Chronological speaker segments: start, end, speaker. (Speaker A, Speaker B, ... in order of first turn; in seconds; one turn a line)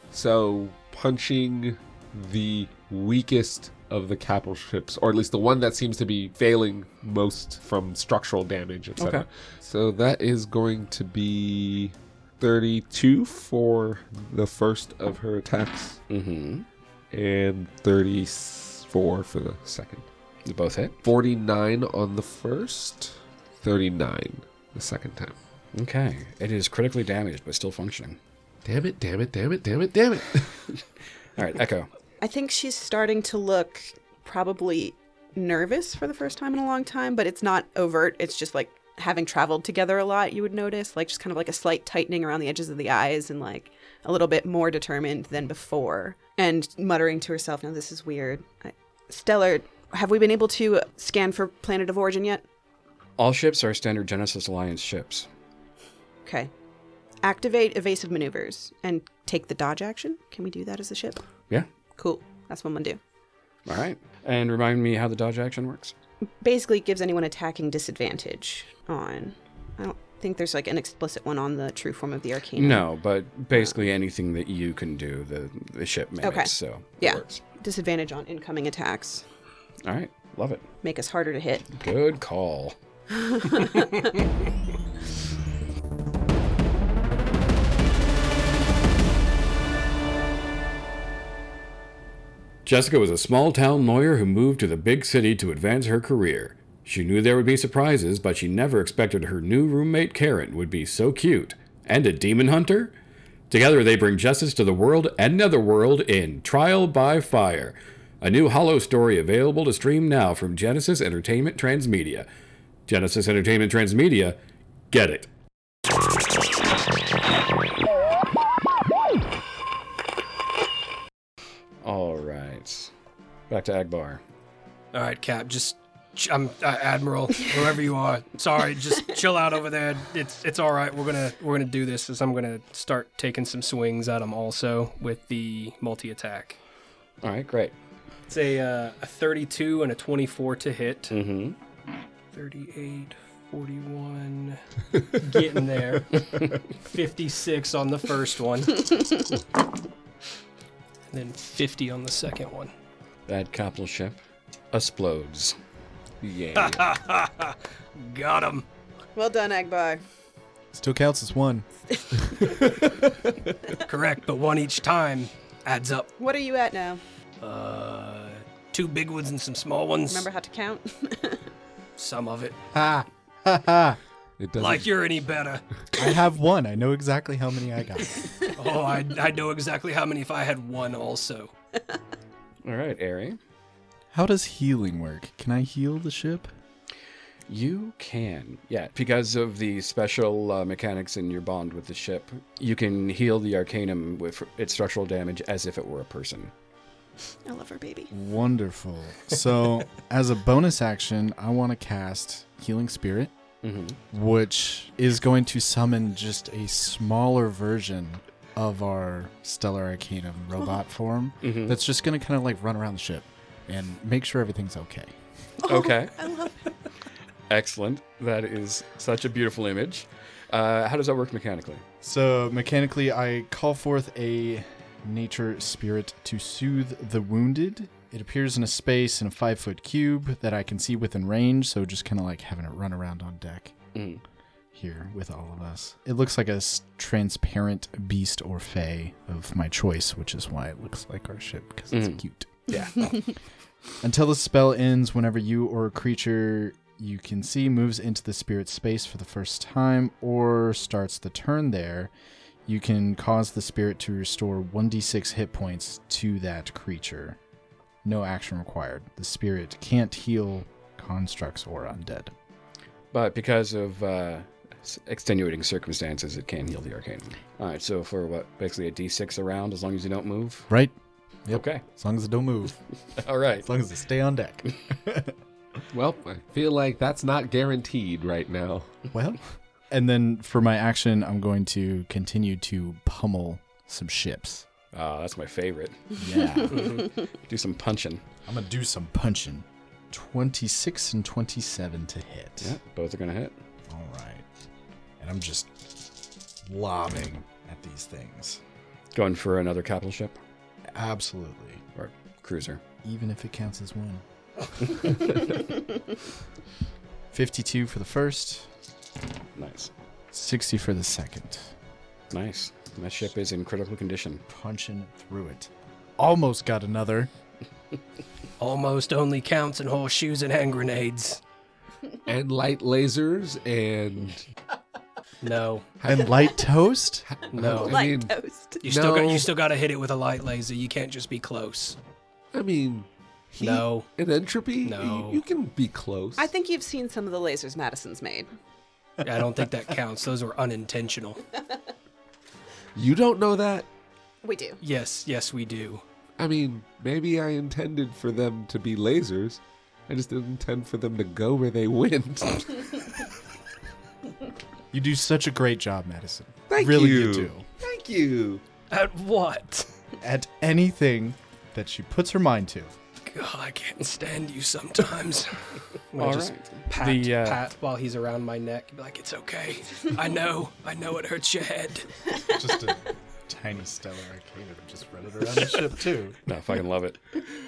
Speaker A: 0.1-16.0
Speaker B: 9.0-9.3
Speaker B: 16.1-16.7
Speaker A: 17.1-20.1
Speaker B: 20.5-21.0
Speaker A: 21.0-25.4
Speaker B: 25.7-28.2
Speaker A: 28.6-30.6
Speaker B: 31.4-31.9
Speaker C: 32.2-52.4
Speaker B: 53.2-55.3
Speaker C: 56.2-56.5
Speaker C: 57.2-61.2
Speaker C: 62.0-63.0
Speaker B: 63.7-65.9
Speaker C: 66.4-72.8
Speaker B: 72.6-77.4
Speaker C: 76.2-79.2
Speaker B: 79.8-80.7
Speaker C: 80.8-81.7
Speaker B: 81.7-82.8
Speaker C: 83.2-83.9
Speaker B: 92.7-102.9
Speaker B: 103.5-112.3
Speaker B: 112.9-114.4
Speaker B: 114.9-115.3
Speaker B: 121.8-122.9
Speaker B: 123.5-124.2
Speaker D: 124.9-136.6
Speaker B: 137.2-137.7
Speaker D: 138.3-141.2
Speaker B: 141.1-141.6
Speaker D: 142.3-149.4
Speaker D: 151.1-152.7
Speaker B: 153.3-154.2
Speaker B: 154.7-155.6
Speaker A: 156.2-156.9
Speaker D: 156.6-158.7
Speaker C: 159.2-160.0
Speaker E: 160.7-161.7
Speaker C: 161.9-162.6
Speaker E: 162.3-163.4
Speaker D: 163.8-166.1
Speaker C: 166.2-167.0
Speaker D: 167.4-170.3
Speaker C: 170.1-171.4
Speaker D: 172.0-172.6
Speaker E: 172.7-174.0
Speaker A: 174.4-174.9
Speaker D: 174.6-175.6
Speaker E: 176.0-178.2
Speaker D: 178.6-181.5
Speaker B: 182.7-183.4
Speaker E: 184.1-186.5
Speaker B: 187.5-196.5
Speaker C: 197.4-198.1
Speaker E: 198.1-203.3
Speaker B: 203.6-204.0
Speaker E: 204.1-215.1
Speaker B: 211.4-211.8
Speaker C: 215.6-216.7
Speaker B: 215.7-216.2
Speaker B: 217.5-221.8
Speaker E: 222.0-233.8
Speaker B: 233.9-234.2
Speaker E: 234.7-242.7
Speaker B: 241.9-243.1
Speaker E: 244.0-252.1
Speaker E: 252.7-257.4
Speaker E: 258.0-262.3
Speaker B: 263.1-270.7
Speaker E: 271.5-272.8
Speaker B: 271.5-271.8
Speaker B: 273.2-273.7
Speaker E: 273.6-275.3
Speaker A: 275.9-278.9
Speaker E: 279.1-284.6
Speaker B: 284.9-288.2
Speaker E: 286.2-287.0
Speaker E: 288.5-292.8
Speaker B: 292.6-293.6
Speaker E: 293.9-294.5
Speaker E: 295.2-298.6
Speaker B: 299.1-300.4
Speaker E: 300.9-301.8
Speaker B: 301.9-302.8
Speaker E: 303.0-304.2
Speaker E: 307.3-308.7
Speaker B: 309.6-309.9
Speaker E: 310.3-311.8
Speaker B: 312.3-314.4
Speaker E: 314.5-317.3
Speaker D: 318.6-321.4
Speaker A: 322.3-324.5
Speaker D: 325.4-325.9
Speaker A: 326.0-326.6
Speaker E: 326.1-327.3
Speaker A: 327.3-329.5
Speaker D: 327.5-328.0
Speaker C: 327.9-328.8
Speaker D: 328.8-332.0
Speaker A: 332.5-336.5
Speaker D: 333.6-334.1
Speaker D: 334.8-335.4
Speaker C: 336.4-338.5
Speaker D: 339.2-341.4
Speaker A: 342.9-343.9
Speaker C: 344.4-344.8
Speaker D: 344.8-346.0
Speaker A: 346.4-353.2
Speaker E: 354.9-357.6
Speaker A: 356.7-358.6
Speaker D: 358.9-359.9
Speaker E: 360.2-362.9
Speaker D: 363.3-372.5
Speaker B: 366.2-367.6
Speaker E: 372.5-376.4
Speaker B: 376.5-377.4